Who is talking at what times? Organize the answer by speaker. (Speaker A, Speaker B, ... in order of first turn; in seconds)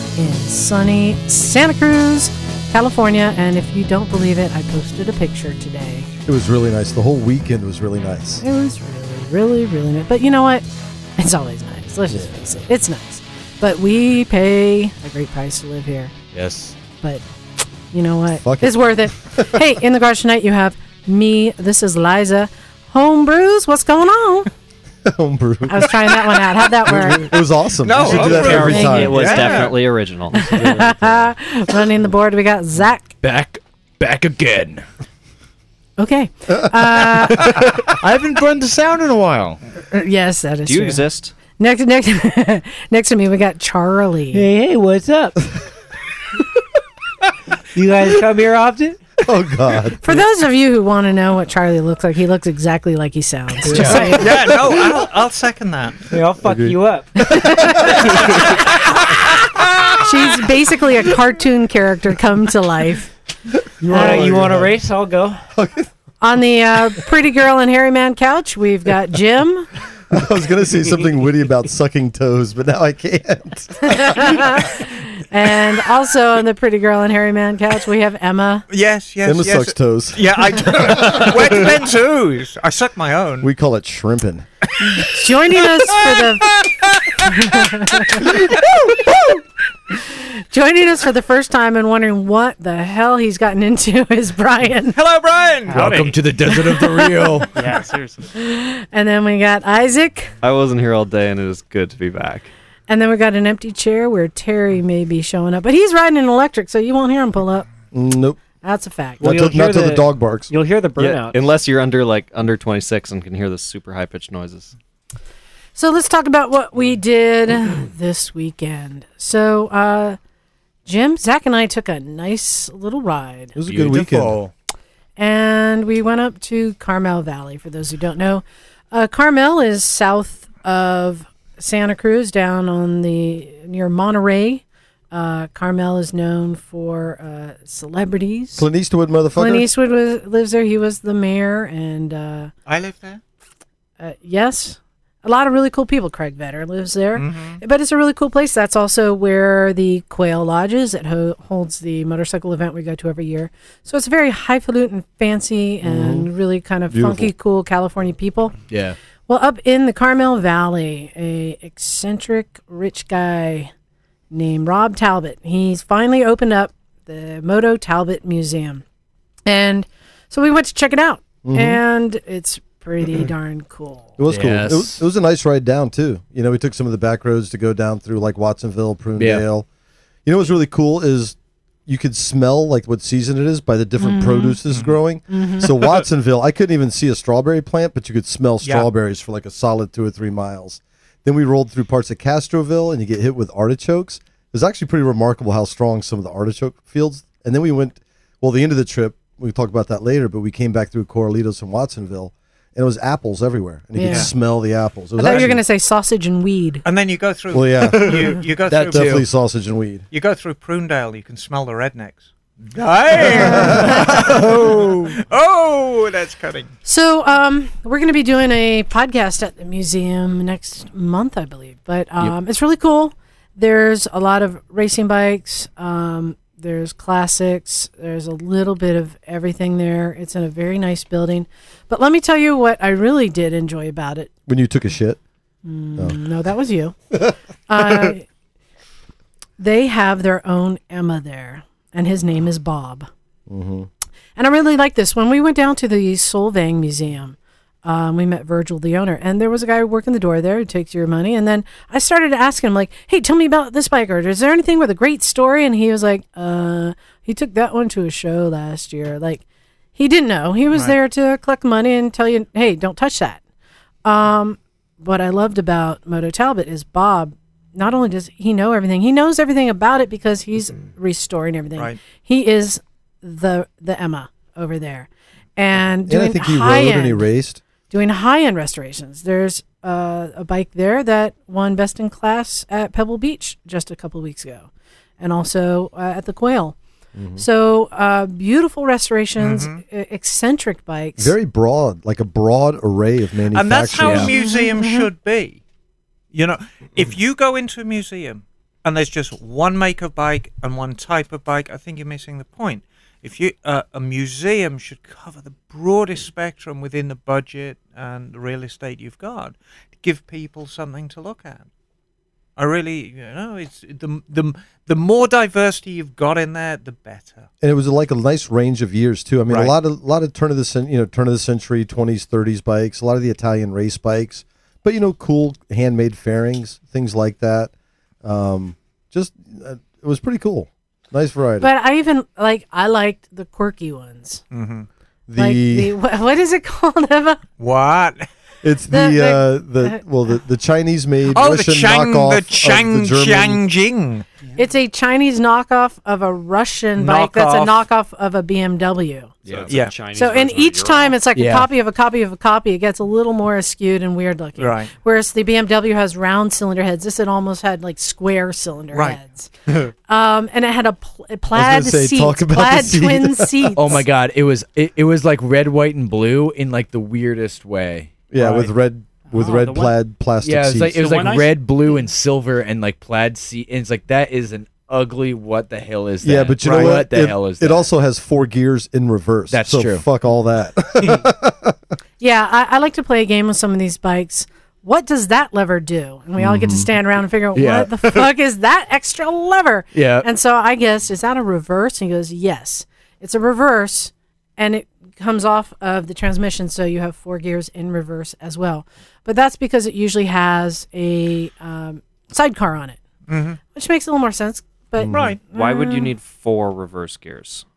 Speaker A: 0.1-6.1, 8.4-10.7, 11.2-16.1, 17.9-24.5, 25.7-27.3, 28.5-29.6, 30.3-33.1, 36.0-37.6, 39.9-44.5, 50.0-54.4, 57.2-58.6, 60.0-63.1, 63.9-64.4, 66.2-69.7, 73.8-78.7, 84.8-86.5, 87.2-88.4, 89.9-95.0, 96.8-97.2, 98.3-100.3, 102.9-107.7, 108.6-109.3, 115.8-120.2, 120.9-123.5, 125.2-138.7, 139.3-142.5, 144.0-158.6, 159.3-163.7, 164.3-168.8, 169.5-174.2, 184.0-184.6, 185.3-185.7, 203.9-204.3, 205.2-206.8, 213.2-214.4, 216.8-234.3, 235.6-237.1, 237.7-238.3, 239.6-243.1, 244.4-259.4, 260.0-263.4, 264.1-277.3, 277.9-286.8, 287.4-291.4, 294.3-295.1, 331.6-334.4, 335.4-337.4, 338.9-340.0, 344.6-349.3, 350.1-359.5, 360.1-364.0, 382.2-403.0, 403.7-406.2
Speaker B: 6.3-8.4, 12.1-12.6, 18.4-19.7, 25.1-29.3, 49.2-50.0, 56.4-58.5, 63.8-64.7, 65.5-65.9, 70.1-74.7, 79.2-81.8, 83.4-84.5, 107.9-108.4, 109.2-110.5, 123.5-124.4, 138.6-139.7, 155.8-156.3, 156.9-157.3, 171.4-171.8, 174.2-179.7, 180.2-181.4, 181.9-205.6, 207.5-210.0, 213.2-214.5, 234.5-235.2, 237.8-238.1, 243.5-243.9, 276.1-277.6, 287.1-287.4, 291.2-294.3, 317.6-327.7, 328.2-331.7, 335.3-335.9, 338.6-343.6, 361.5-364.0, 368.3-371.0, 376.2-381.8, 386.4-386.9, 405.0-405.4
Speaker C: 16.3-16.8, 33.2-34.9, 37.4-39.6, 95.7-97.6, 123.7-124.0, 158.7-159.0, 174.3-175.0, 179.2-179.4, 208.7-209.2, 294.0-294.3, 349.5-349.7, 351.3-351.7, 363.8-368.3, 370.4-377.9, 379.5-380.0, 387.6-388.3, 389.9-390.3
Speaker D: 27.8-29.8, 54.0-56.1, 78.7-83.5, 85.8-87.2, 88.1-88.5, 94.9-96.2, 123.7-124.4, 142.7-143.2, 147.2-147.6, 184.7-184.9, 204.1-204.3, 206.8-209.2, 210.1-214.6, 215.2-216.7, 289.4-289.8, 293.5-295.6, 296.3-311.7, 312.6-317.5, 319.5-319.7, 334.5-334.9, 337.6-338.3, 341.3-344.2, 347.0-347.8, 349.7-349.9, 354.6-354.9, 358.9-359.2, 376.6-377.0, 403.3-403.6, 405.1-405.4
Speaker E: 28.0-31.3, 40.6-41.3, 100.4-102.5, 111.2-114.8, 349.5-351.2, 405.5-407.6
Speaker F: 44.3-45.5, 47.7-49.0, 53.6-54.6, 56.1-58.2, 63.8-65.4, 109.2-111.4
Speaker G: 95.8-96.1, 97.5-98.3, 368.4-368.7, 369.3-370.0, 371.0-371.6